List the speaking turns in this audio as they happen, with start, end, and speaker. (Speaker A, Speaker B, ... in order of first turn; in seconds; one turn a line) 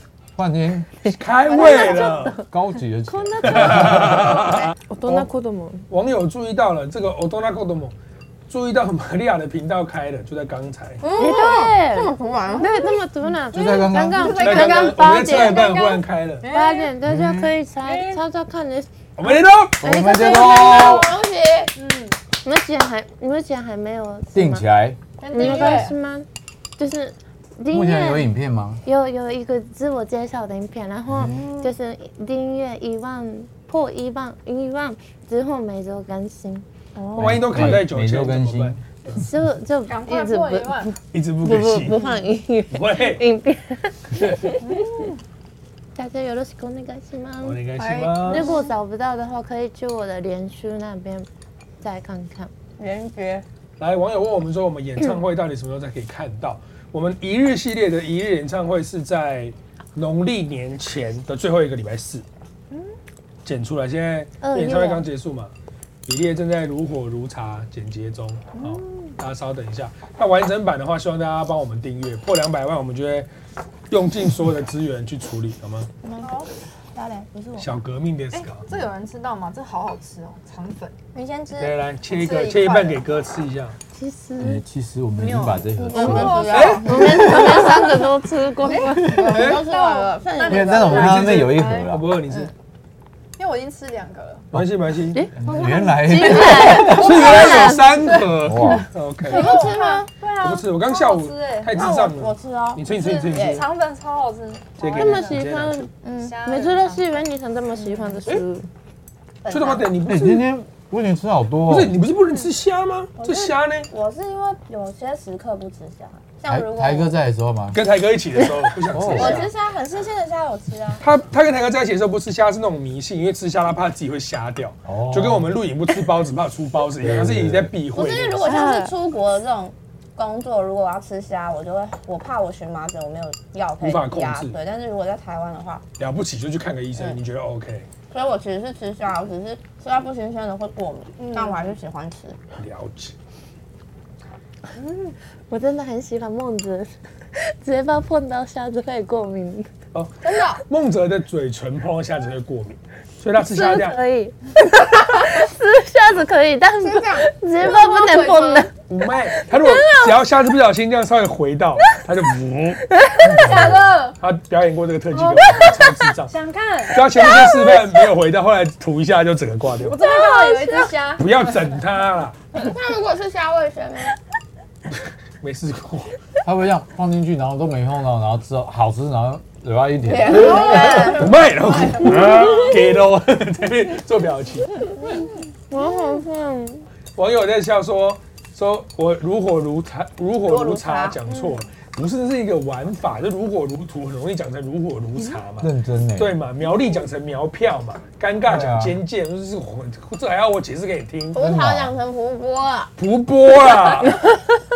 Speaker A: 0.3-0.9
Speaker B: 1.1-2.4
Speaker C: 1.1-2.4
Speaker D: 1.6-2.0
Speaker E: 1.7-2.0
Speaker A: 2.5-4.3
Speaker C: 3.1-5.9
Speaker B: 3.4-5.2
Speaker B: 5.9-7.9
Speaker B: 8.5-11.0
Speaker D: 11.0-12.9
Speaker C: 11.2-15.9
Speaker A: 13.5-14.4
Speaker E: 14.1-16.9
Speaker B: 14.3-16.4
Speaker C: 16.5-21.1
Speaker A: 17.0-17.5
Speaker E: 17.8-18.2
Speaker B: 19.1-19.8
Speaker A: 19.8-21.1
Speaker D: 20.1-21.7
Speaker E: 21.8-22.2
Speaker C: 22.4-24.6
Speaker A: 24.3-25.9
Speaker E: 25.2-25.9
Speaker C: 25.3-26.2
Speaker C: 26.8-28.3
Speaker A: 27.7-28.8
Speaker C: 28.8-36.6
Speaker A: 31.1-31.4
Speaker D: 31.2-31.7
Speaker D: 37.0-37.7
Speaker B: 37.1-39.2
Speaker A: 37.1-38.8
Speaker C: 39.1-44.6
Speaker E: 39.9-40.9
Speaker B: 41.1-42.0
Speaker B: 42.7-43.2
Speaker E: 44.6-45.1
Speaker C: 46.0-47.6
Speaker B: 47.4-48.5
Speaker E: 47.8-48.6
Speaker C: 48.2-51.3
Speaker C: 51.8-52.5
Speaker D: 52.8-53.4
Speaker B: 53.8-62.2
Speaker B: 63.4-65.5
Speaker C: 64.4-65.0
Speaker B: 66.0-73.3
Speaker E: 68.5-69.1
Speaker B: 73.9-75.9
Speaker D: 76.0-76.4
Speaker E: 76.2-76.5
Speaker D: 76.9-77.7
Speaker B: 77.6-78.7
Speaker E: 78.3-81.0
Speaker D: 81.1-81.7
Speaker B: 81.6-83.8
Speaker E: 82.1-83.0
Speaker C: 83.9-84.6
Speaker A: 84.4-86.5
Speaker E: 85.2-87.8
Speaker D: 85.6-88.1
Speaker B: 86.5-87.3
Speaker C: 86.8-89.5
Speaker E: 88.7-91.9
Speaker D: 88.7-91.2
Speaker B: 89.2-89.6
Speaker A: 90.5-92.0
Speaker B: 90.9-92.5
Speaker E: 93.4-94.5
Speaker B: 94.5-95.3
Speaker A: 95.3-97.0
Speaker D: 95.5-96.6
Speaker C: 96.0-98.1
Speaker E: 96.0-97.5
Speaker B: 96.7-99.5
Speaker A: 98.4-98.8
Speaker E: 99.2-101.9
Speaker D: 99.3-100.1
Speaker B: 100.4-103.7
Speaker D: 101.7-103.6
Speaker E: 102.9-105.4
Speaker B: 104.8-105.8
Speaker C: 104.9-108.7
Speaker D: 106.0-106.4
Speaker E: 106.2-107.1
Speaker D: 109.5-109.8
Speaker E: 109.5-109.8
Speaker B: 109.5-110.4
Speaker A: 110.0-111.9
Speaker B: 111.7-113.9
Speaker E: 113.2-113.5
Speaker D: 113.9-117.2
Speaker A: 116.5-117.8
Speaker B: 117.7-119.5
Speaker A: 118.9-119.4
Speaker D: 119.1-121.0
Speaker B: 121.0-128.6
Speaker A: 124.8-125.6
Speaker A: 127.0-127.7
Speaker D: 127.9-135.8
Speaker C: 128.5-128.9
Speaker B: 133.8-134.6
Speaker B: 136.0-137.9
Speaker D: 138.1-142.4
Speaker E: 141.2-141.7
Speaker B: 142.6-143.1
Speaker E: 144.7-145.1
Speaker C: 145.5-149.7
Speaker B: 149.9-154.0
Speaker E: 150.2-150.6
Speaker C: 153.4-158.7
Speaker E: 156.9-158.7
Speaker B: 158.9-162.9
Speaker C: 159.3-160.2
Speaker C: 162.9-163.4
Speaker E: 163.2-164.2
Speaker A: 163.2-163.9
Speaker B: 164.2-166.3
Speaker E: 165.1-167.0
Speaker B: 166.9-170.0
Speaker C: 167.2-167.7
Speaker E: 169.7-171.8
Speaker D: 170.0-170.9
Speaker C: 170.2-170.6
Speaker B: 171.2-172.4
Speaker D: 172.5-174.1
Speaker B: 175.4-176.1
Speaker A: 176.4-180.9
Speaker D: 180.1-181.3
Speaker E: 180.1-182.8
Speaker B: 181.0-184.9
Speaker C: 185.7-186.9
Speaker B: 187.2-201.4
Speaker D: 190.5-191.2
Speaker A: 195.6-196.4
Speaker A: 198.4-199.0
Speaker D: 201.3-202.9
Speaker A: 201.3-202.0
Speaker B: 203.0-204.2